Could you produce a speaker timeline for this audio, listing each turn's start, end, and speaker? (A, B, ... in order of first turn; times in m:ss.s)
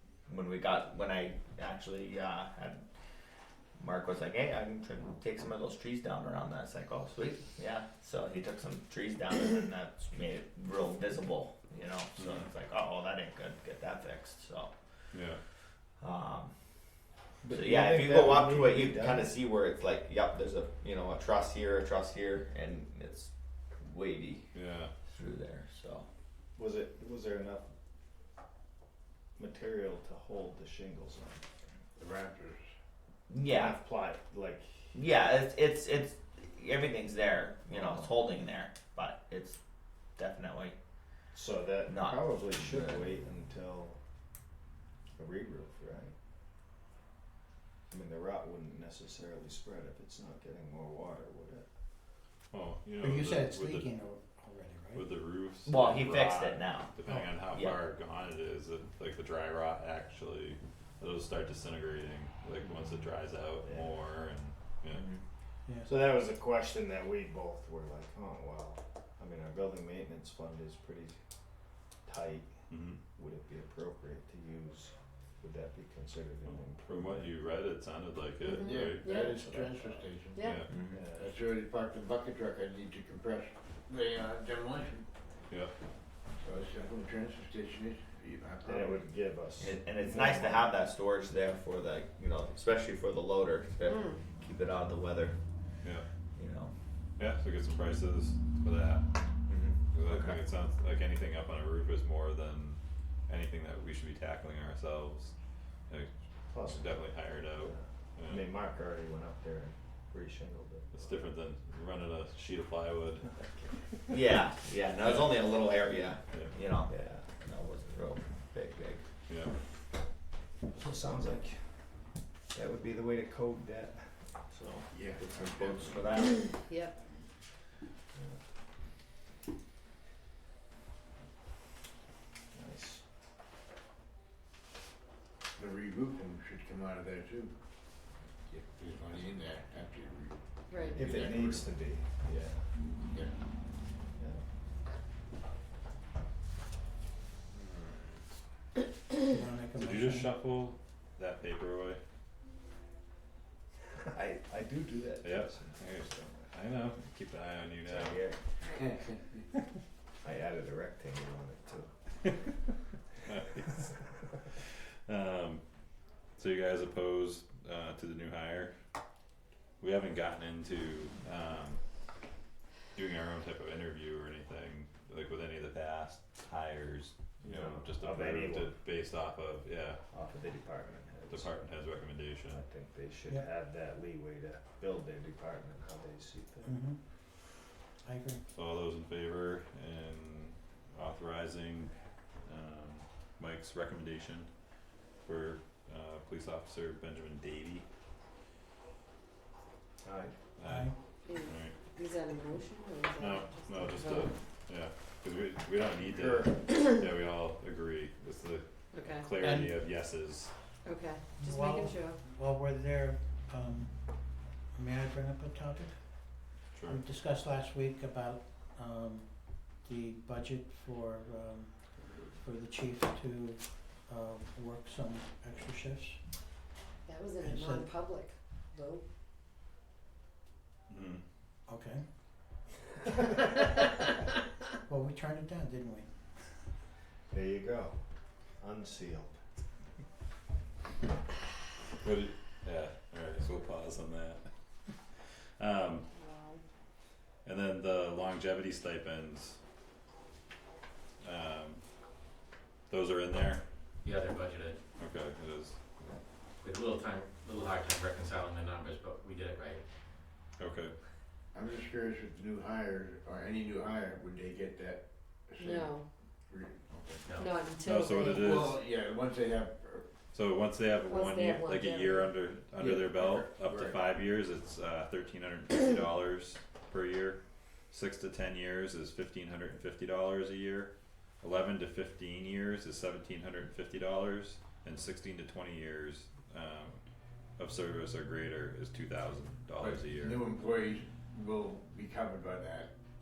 0:00.3-0:02.9 A
0:03.8-0:14.7 A
0:12.2-0:12.5 B
0:15.1-0:15.4 B
0:16.0-0:16.5 A
0:17.4-0:19.3 C
0:17.5-0:24.5 A
0:24.5-0:24.9 B
0:25.1-0:26.0 A
0:26.6-0:27.7 C
0:29.4-0:31.4 C
0:32.0-0:32.7 D
0:33.3-0:33.8 A
0:33.4-0:35.0 C
0:34.9-0:39.6 A
0:37.7-0:38.1 C
0:40.2-0:40.8 A
0:41.3-0:44.0 C
0:41.8-0:43.1 A
0:45.2-0:46.1 C
0:47.9-0:51.6 C
0:52.5-0:53.9 B
0:53.0-0:55.1 E
0:54.9-1:05.1 B
0:55.6-0:56.9 A
0:57.0-0:57.3 E
0:57.5-0:57.8 A
1:03.6-1:04.0 C
1:04.9-1:05.2 A
1:05.6-1:05.9 E
1:05.8-1:11.2 C
1:12.0-1:17.3 C
1:12.7-1:13.0 B
1:16.4-1:19.1 B
1:18.4-1:19.4 F
1:18.6-1:25.0 D
1:19.0-1:20.1 C
1:20.3-1:20.6 F
1:20.4-1:20.7 B
1:20.7-1:21.0 A
1:20.9-1:21.3 C
1:26.4-1:29.0 D
1:28.6-1:30.7 C
1:29.6-1:35.4 A
1:33.8-1:34.3 F
1:36.3-1:36.7 A
1:37.2-1:39.0 B
1:39.9-1:45.3 B
1:45.9-1:48.5 B
1:46.5-1:47.0 C
1:47.5-1:51.2 C
1:50.9-1:53.3 B
1:53.4-1:53.7 C
1:54.1-1:59.0 A
1:55.0-1:55.4 B
1:56.9-1:57.3 C
1:59.3-1:59.5 B
2:00.7-2:01.9 C
2:02.5-2:06.0 C
2:04.9-2:05.5 D
2:05.3-2:06.5 A
2:06.4-2:07.0 F
2:12.5-2:13.0 C
2:15.6-2:17.5 D
2:18.5-2:21.7 D
2:20.7-2:21.3 F
2:20.9-2:22.6 C
2:24.2-2:24.4 C
2:29.3-2:30.4 E
2:29.8-2:32.0 B
2:34.0-2:36.5 C
2:35.2-2:38.2 B
2:37.8-2:38.4 C
2:40.2-2:42.4 C
2:43.2-2:43.9 B
2:44.5-2:45.6 B
2:46.4-2:48.7 B
2:49.8-2:51.8 B
2:52.9-3:00.0 B
2:57.4-2:58.7 C
3:00.1-3:01.5 C
3:01.3-3:02.6 B
3:02.5-3:06.7 C
3:06.6-3:07.0 E
3:08.0-3:08.4 E
3:08.5-3:11.9 B
3:12.4-3:14.5 B
3:15.2-3:17.8 B
3:20.0-3:20.4 C
3:20.6-3:21.8 B
3:20.6-3:21.0 E
3:21.2-3:24.3 F
3:23.2-3:30.5 B
3:26.1-3:26.5 C
3:28.9-3:29.3 F
3:29.4-3:29.8 E
3:30.8-3:32.2 F
3:31.4-3:46.2 E
3:36.7-3:37.0 B
3:47.0-3:49.0 F
3:47.4-3:47.9 E
3:50.9-3:51.2 B
3:51.7-3:52.0 E
3:54.9-3:56.6 E
3:57.3-3:58.0 C
3:58.6-3:59.4 C
4:02.0-4:04.4 B
4:05.2-4:06.0 B
4:06.1-4:06.6 F
4:07.4-4:09.6 B
4:11.2-4:11.8 B
4:12.9-4:13.6 B
4:14.0-4:14.8 G
4:15.0-4:15.8 B
4:16.6-4:19.8 G
4:20.6-4:20.9 B
4:21.5-4:27.3 D
4:25.6-4:26.0 F
4:27.3-4:28.6 F
4:27.8-4:28.8 B
4:28.2-4:30.1 D
4:30.3-4:37.4 B
4:31.0-4:32.4 F
4:33.0-4:34.0 D
4:37.9-4:40.9 B
4:41.4-4:47.0 B
4:47.6-4:50.5 B
4:49.8-4:52.9 D